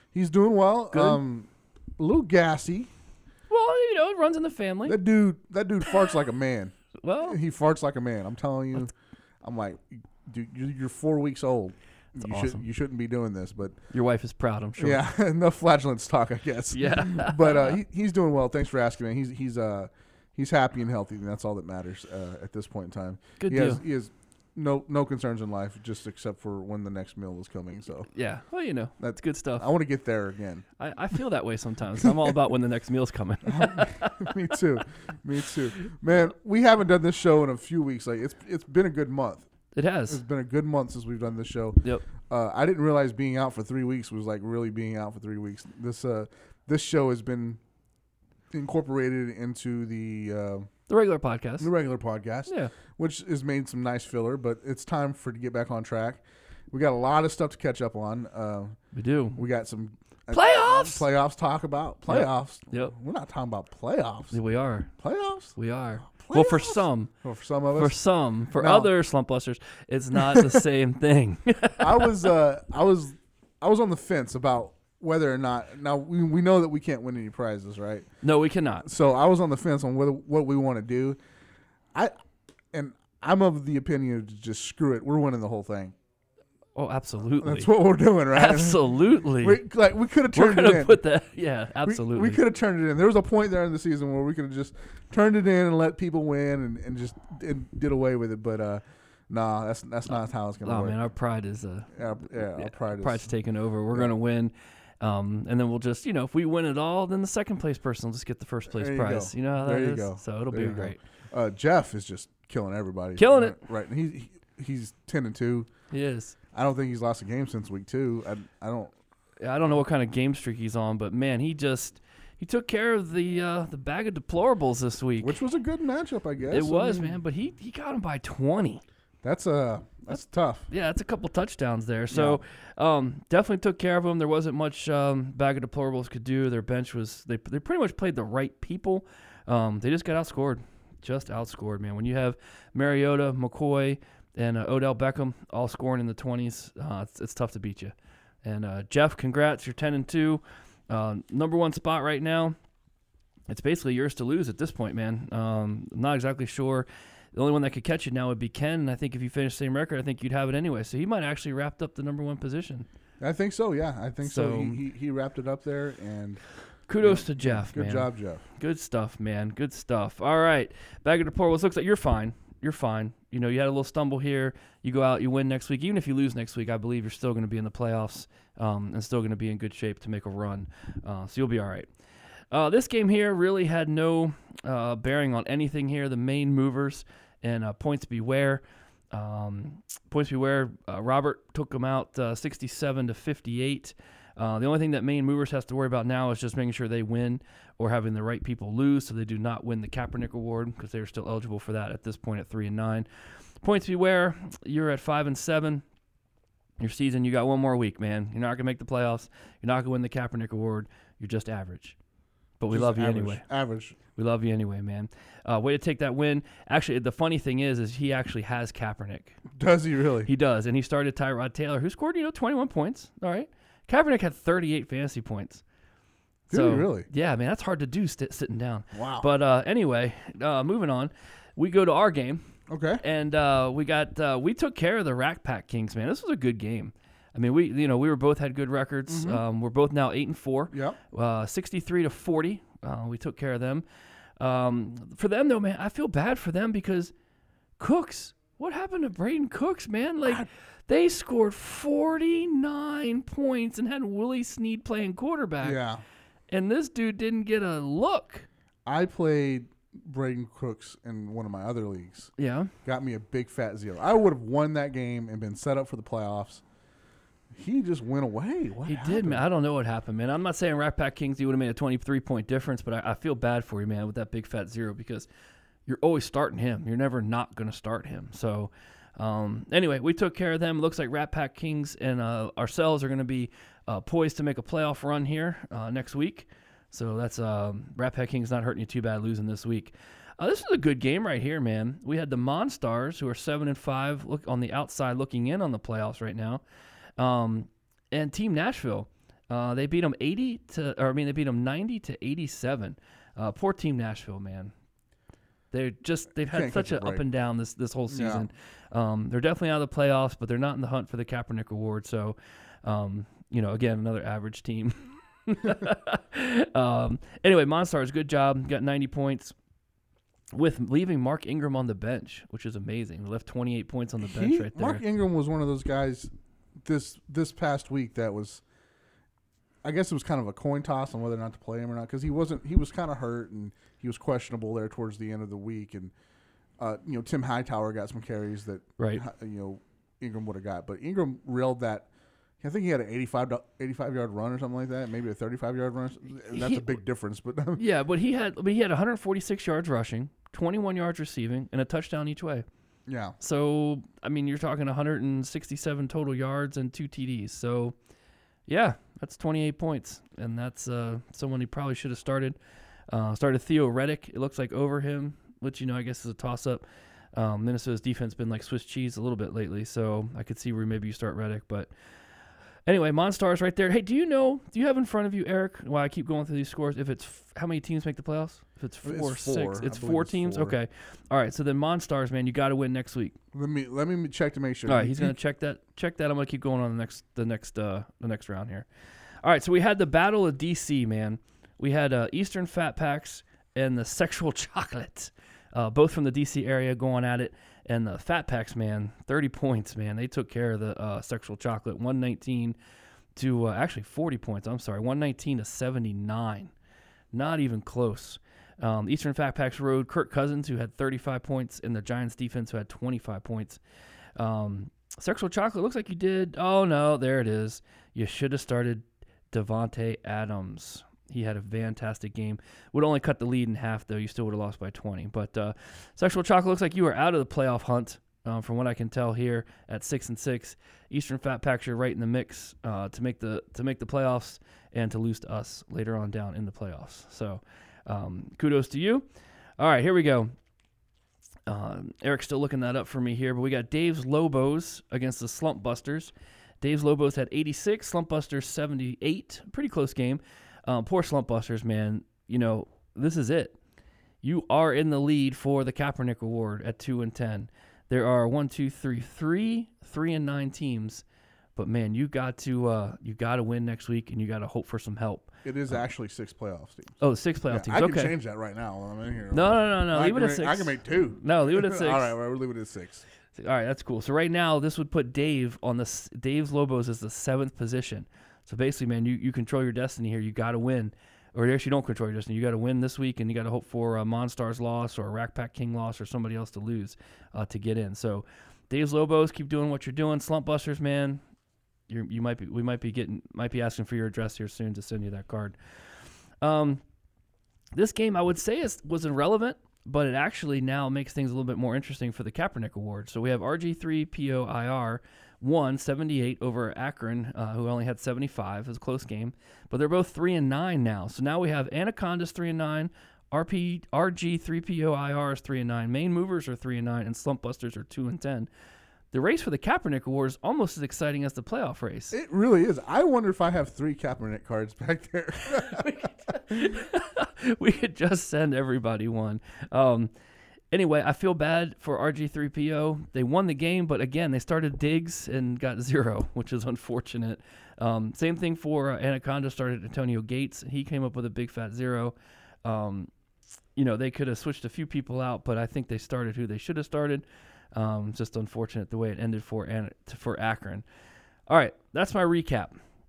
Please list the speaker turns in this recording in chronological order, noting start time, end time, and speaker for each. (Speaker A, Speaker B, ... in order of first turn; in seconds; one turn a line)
Speaker A: 0.1-2.9
Speaker B: 0.9-1.2
Speaker B: 3.5-5.0
Speaker A: 4.9-8.9
Speaker B: 7.0-7.4
Speaker A: 9.4-13.8
Speaker B: 12.2-12.6
Speaker B: 13.9-15.0
Speaker A: 14.8-28.1
Speaker B: 16.7-17.8
Speaker B: 23.4-23.8
Speaker B: 28.1-29.7
Speaker A: 29.0-30.6
Speaker B: 30.8-34.5
Speaker A: 33.5-39.5
Speaker B: 39.7-40.2
Speaker A: 40.1-47.6
Speaker A: 48.5-50.7
Speaker B: 50.9-51.7
Speaker A: 51.6-56.2
Speaker B: 52.5-52.7
Speaker A: 56.7-58.8
Speaker B: 58.9-59.4
Speaker A: 59.4-64.4
Speaker B: 60.3-61.1
Speaker B: 62.1-62.9
Speaker B: 64.3-64.9
Speaker A: 65.0-65.6
Speaker B: 65.6-67.1
Speaker A: 66.1-68.0
Speaker B: 67.7-72.2
Speaker A: 68.5-68.9
Speaker A: 70.2-70.6
Speaker A: 71.8-78.1
Speaker B: 78.2-78.9
Speaker A: 78.8-81.2
Speaker A: 82.7-86.0
Speaker B: 86.8-87.7
Speaker A: 87.4-88.8
Speaker B: 88.3-89.6
Speaker A: 89.4-91.0
Speaker B: 90.3-92.4
Speaker A: 91.8-101.0
Speaker B: 100.6-111.0
Speaker A: 101.9-103.3
Speaker A: 108.7-115.7
Speaker B: 113.2-113.6
Speaker B: 115.9-116.4
Speaker A: 116.5-118.9
Speaker B: 119.4-125.4
Speaker A: 125.2-127.2
Speaker B: 126.5-128.8
Speaker A: 129.2-130.7
Speaker B: 130.7-152.6
Speaker A: 132.1-132.4
Speaker B: 153.5-162.9
Speaker A: 163.2-166.4
Speaker B: 164.2-164.8
Speaker B: 166.9-181.9
Speaker A: 167.0-168.4
Speaker B: 182.5-203.1
Speaker B: 203.6-205.8
Speaker B: 206.8-212.0
Speaker B: 212.6-213.4
Speaker A: 212.7-214.0
Speaker B: 214.2-219.4
Speaker A: 219.6-220.3
Speaker B: 220.3-225.6
Speaker A: 226.5-227.1
Speaker B: 226.5-232.4
Speaker A: 228.9-229.3
Speaker A: 232.7-233.0
Speaker B: 233.0-243.8
Speaker A: 239.1-239.4
Speaker A: 240.7-241.0
Speaker B: 244.4-247.1
Speaker B: 247.8-255.8
Speaker A: 255.6-256.0
Speaker B: 256.5-258.5
Speaker A: 258.9-262.3
Speaker B: 262.4-262.7
Speaker A: 262.9-266.6
Speaker A: 267.6-269.4
Speaker B: 268.9-275.3
Speaker B: 275.9-296.6
Speaker B: 297.2-304.7
Speaker B: 305.7-319.5
Speaker A: 306.4-307.3
Speaker A: 308.1-308.5
Speaker B: 320.5-325.0
Speaker A: 324.2-326.3
Speaker A: 326.9-328.6
Speaker A: 329.8-336.1
Speaker A: 336.8-342.1
Speaker B: 339.0-339.2
Speaker A: 342.6-347.8
Speaker B: 346.5-347.0
Speaker B: 347.8-352.6
Speaker A: 353.1-353.4
Speaker B: 353.4-358.0
Speaker B: 358.7-362.6
Speaker B: 363.1-366.8
Speaker B: 367.3-371.9
Speaker B: 372.9-383.4
Speaker A: 379.0-380.8
Speaker A: 383.5-385.4
Speaker B: 384.9-388.9
Speaker B: 389.4-402.8
Speaker B: 403.4-406.7
Speaker B: 407.3-413.8
Speaker B: 414.4-439.3
Speaker B: 439.8-440.5
Speaker B: 441.7-453.8
Speaker B: 454.4-461.2
Speaker B: 461.8-466.0
Speaker A: 465.6-467.2
Speaker B: 467.2-468.4
Speaker A: 467.7-473.2
Speaker B: 469.5-472.4
Speaker B: 473.5-491.4
Speaker B: 492.1-495.8
Speaker B: 496.6-497.0
Speaker B: 497.9-518.7
Speaker B: 519.3-522.4
Speaker A: 522.3-526.3
Speaker B: 525.7-530.3
Speaker B: 530.9-543.3
Speaker B: 544.0-551.1
Speaker B: 551.7-552.9